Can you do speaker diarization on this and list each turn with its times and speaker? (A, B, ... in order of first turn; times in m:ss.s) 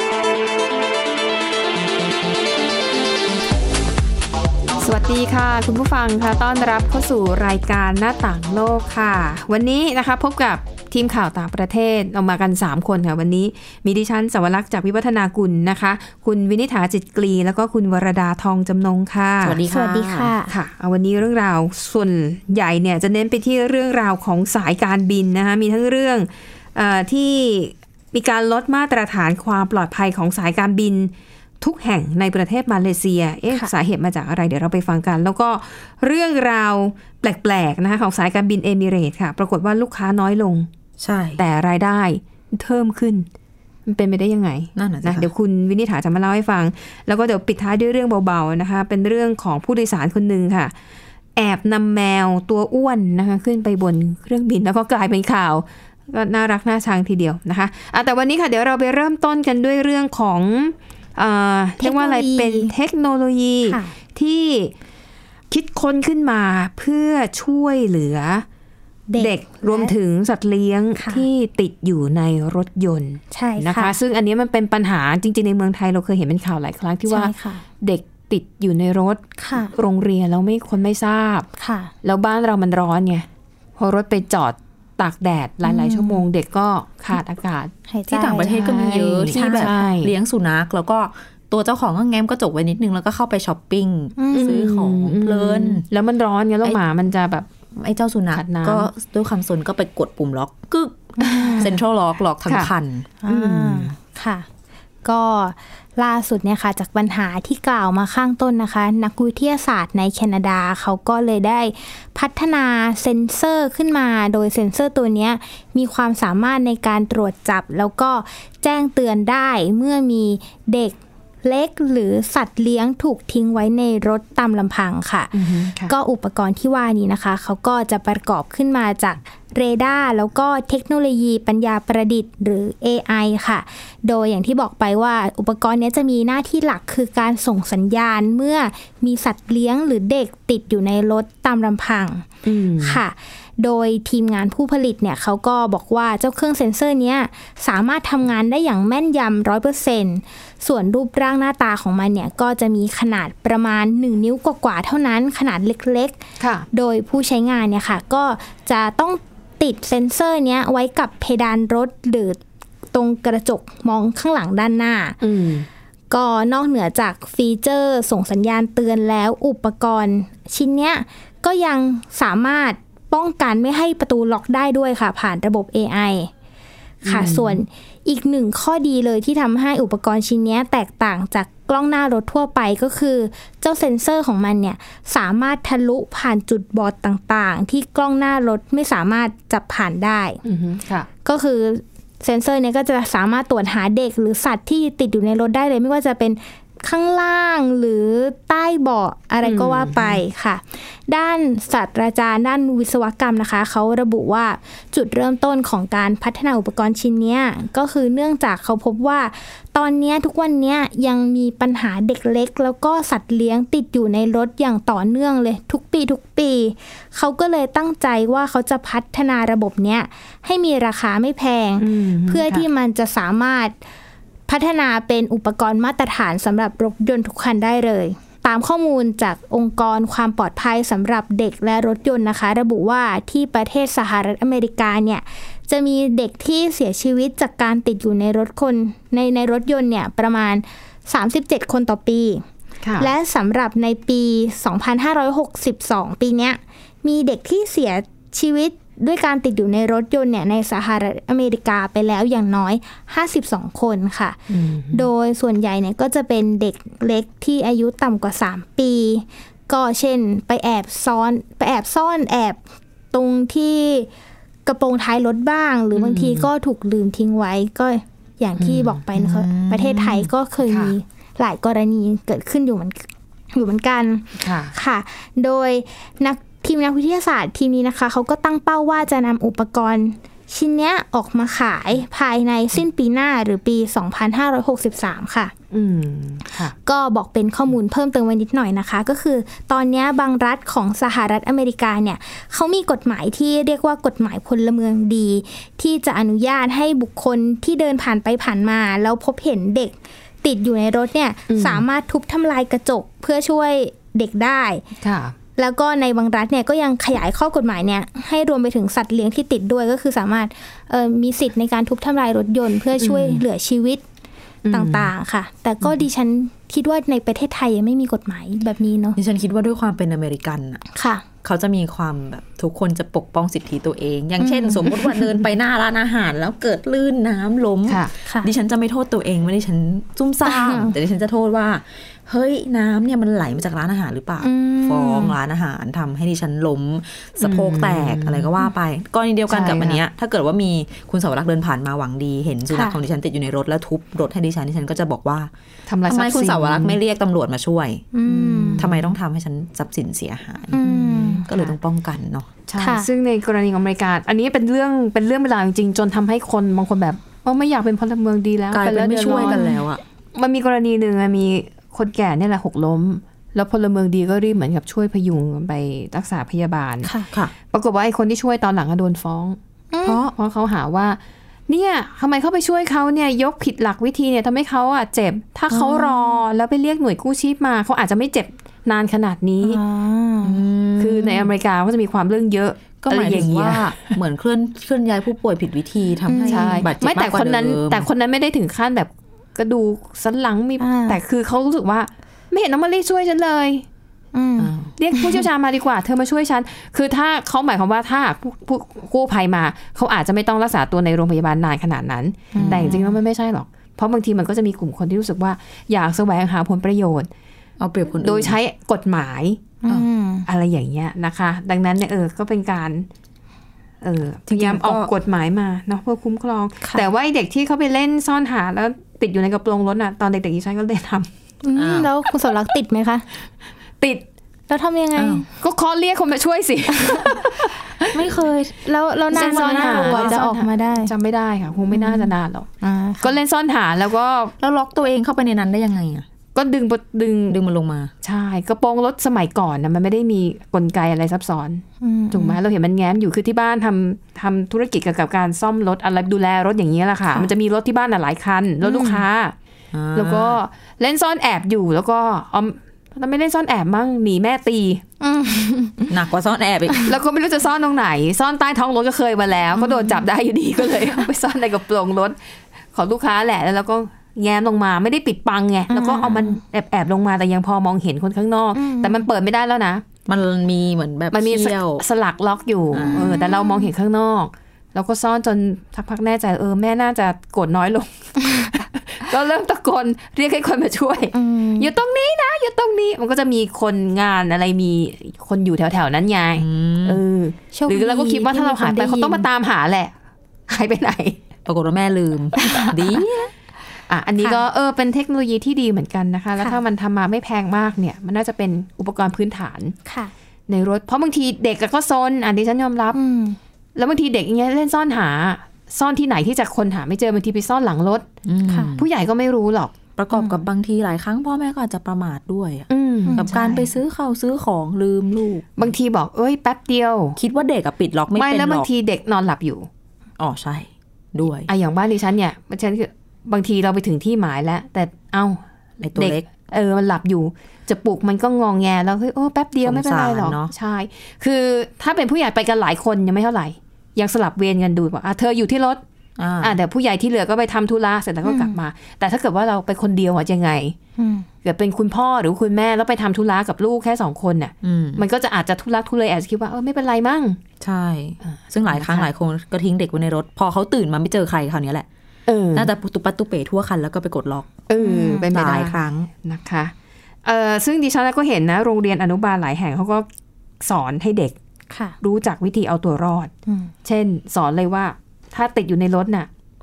0:04.8-0:19.6 A
0:19.4-0:20.3 B
0:19.7-0:20.5 C
0:20.5-0:40.7 A
0:41.0-0:41.4 B
0:41.4-0:43.3 A
0:43.9-0:50.7 A
0:44.8-0:45.3 B
0:51.4-1:04.7 A
1:01.8-1:02.7 C
1:03.7-1:03.9 C
1:05.5-1:08.4 A
1:09.1-1:09.9 C
1:09.2-1:21.5 A
1:11.0-1:11.2 C
1:13.3-1:13.9 C
1:17.1-1:17.6 C
1:19.4-1:19.7 C
1:21.6-1:21.9 C
1:22.0-1:23.2 A
1:23.8-1:27.7 A
1:25.6-1:26.2 C
1:27.9-1:29.8 C
1:28.1-1:35.8 B
1:28.4-1:30.1 A
1:34.2-1:34.7 C
1:34.3-1:37.4 A
1:37.8-1:43.1 B
1:38.3-1:38.9 A
1:41.2-1:41.6 C
1:41.2-1:41.7 A
1:42.4-1:42.7 A
1:43.2-1:44.4 C
1:43.3-1:43.9 A
1:45.0-2:22.3 C
2:05.3-2:05.9 A
2:22.4-2:23.0 A
2:22.8-2:36.2 C
2:36.4-2:36.6 A
2:36.7-2:42.4 C
2:42.9-2:45.2 C
2:45.2-2:45.7 A
2:46.1-2:56.3 C
2:57.0-2:57.6 A
2:57.0-3:10.4 C
3:10.4-3:11.1 A
3:11.2-3:43.8 C
3:19.4-3:20.2 A
3:41.8-3:42.6 A
3:44.5-4:02.4 C
4:02.8-4:03.1 A
4:03.0-4:22.6 C
4:14.5-4:15.1 A
4:23.1-4:24.1 C
4:24.6-4:45.5 C
4:25.9-4:26.5 A
4:28.6-4:28.9 A
4:29.1-4:30.3 B
4:30.6-4:30.9 A
4:34.4-4:34.7 A
4:45.7-4:46.7 A
4:46.8-5:04.8 C
5:01.5-5:01.8 A
5:05.0-5:05.3 A
5:05.6-5:14.0 C
5:13.0-5:13.4 A
5:14.6-5:15.1 A
5:14.7-5:19.2 C
5:19.2-5:20.8 B
5:20.9-5:21.2 C
5:21.4-5:45.5 B
5:24.4-5:25.0 C
5:28.2-5:28.5 C
5:30.4-5:30.9 C
5:34.4-5:35.3 C
5:37.4-5:38.5 A
5:39.5-5:40.0 A
5:42.7-5:43.0 C
5:45.9-5:47.0 A
5:46.1-5:52.5 B
5:48.1-5:48.8 C
5:48.4-5:49.1 A
5:50.7-5:51.4 C
5:50.8-5:51.7 A
5:52.7-5:59.6 A
5:52.8-5:53.1 C
5:58.7-6:00.0 B
5:59.4-5:59.8 C
6:00.4-6:07.1 A
6:07.0-6:07.3 C
6:07.3-6:07.5 B
6:07.7-6:19.8 A
6:09.9-6:10.2 C
6:15.7-6:16.4 C
6:19.6-6:20.5 C
6:20.4-6:21.5 B
6:21.0-6:24.2 A
6:23.0-6:28.1 B
6:26.3-6:26.8 C
6:26.5-6:33.8 A
6:30.8-6:31.2 C
6:34.3-6:35.4 C
6:34.6-6:34.9 B
6:35.0-6:47.3 A
6:42.5-6:43.2 C
6:42.5-6:43.0 B
6:47.8-6:48.6 B
6:48.2-6:49.7 A
6:49.8-6:50.4 C
6:50.5-6:53.1 A
6:54.0-7:01.3 A
6:54.5-6:55.1 B
7:01.6-7:03.2 C
7:01.7-7:02.1 B
7:04.7-7:05.4 C
7:05.2-7:05.4 B
7:05.6-7:08.2 A
7:08.1-7:10.4 B
7:08.8-7:11.1 C
7:09.3-7:12.7 A
7:11.9-7:13.4 C
7:13.2-7:14.5 A
7:14.6-7:16.2 B
7:16.5-7:17.6 A
7:17.5-7:18.1 B
7:18.2-7:29.5 A
7:22.0-7:22.6 C
7:28.8-7:29.2 C
7:29.9-7:30.6 B
7:30.1-7:35.0 A
7:35.2-7:36.1 C
7:36.1-7:37.0 B
7:37.0-7:42.4 A
7:39.8-7:40.2 C
7:42.9-7:50.0 A
7:45.9-7:46.6 C
7:48.7-7:49.2 C
7:50.3-7:52.0 B
7:51.3-8:10.1 A
7:52.9-7:53.4 B
7:53.2-7:53.9 C
8:01.3-8:01.9 C
8:06.6-8:07.2 B
8:07.7-8:09.4 C
8:10.7-8:11.4 A
8:11.6-8:13.5 B
8:14.1-8:20.0 A
8:20.1-8:20.3 C
8:20.7-8:23.2 A
8:23.1-8:23.6 C
8:24.0-8:28.2 A
8:28.4-8:29.1 B
8:28.7-8:29.0 C
8:29.0-8:30.0 A
8:30.2-8:35.9 B
8:30.3-8:30.6 C
8:32.9-8:33.8 A
8:35.8-8:37.4 A
8:37.4-8:38.9 B
8:38.3-8:39.9 A
8:40.4-8:41.7 B
8:41.7-8:45.6 A
8:46.0-8:46.4 B
8:46.1-8:56.0 A
8:49.8-8:50.7 B
8:56.4-8:56.8 B
8:56.6-9:01.0 A
8:58.4-8:58.8 C
9:01.2-9:01.5 C
9:01.6-9:07.6 A
9:04.8-9:05.2 B
9:07.8-9:12.0 B
9:08.8-9:09.3 A
9:12.5-9:12.9 A
9:12.7-9:14.8 B
9:14.9-9:16.9 A
9:15.0-9:15.4 C
9:15.5-9:16.3 B
9:17.4-9:20.2 A
9:20.8-9:21.6 A
9:21.9-9:22.1 C
9:22.2-9:23.5 A
9:23.7-9:23.9 C
9:24.0-9:26.5 A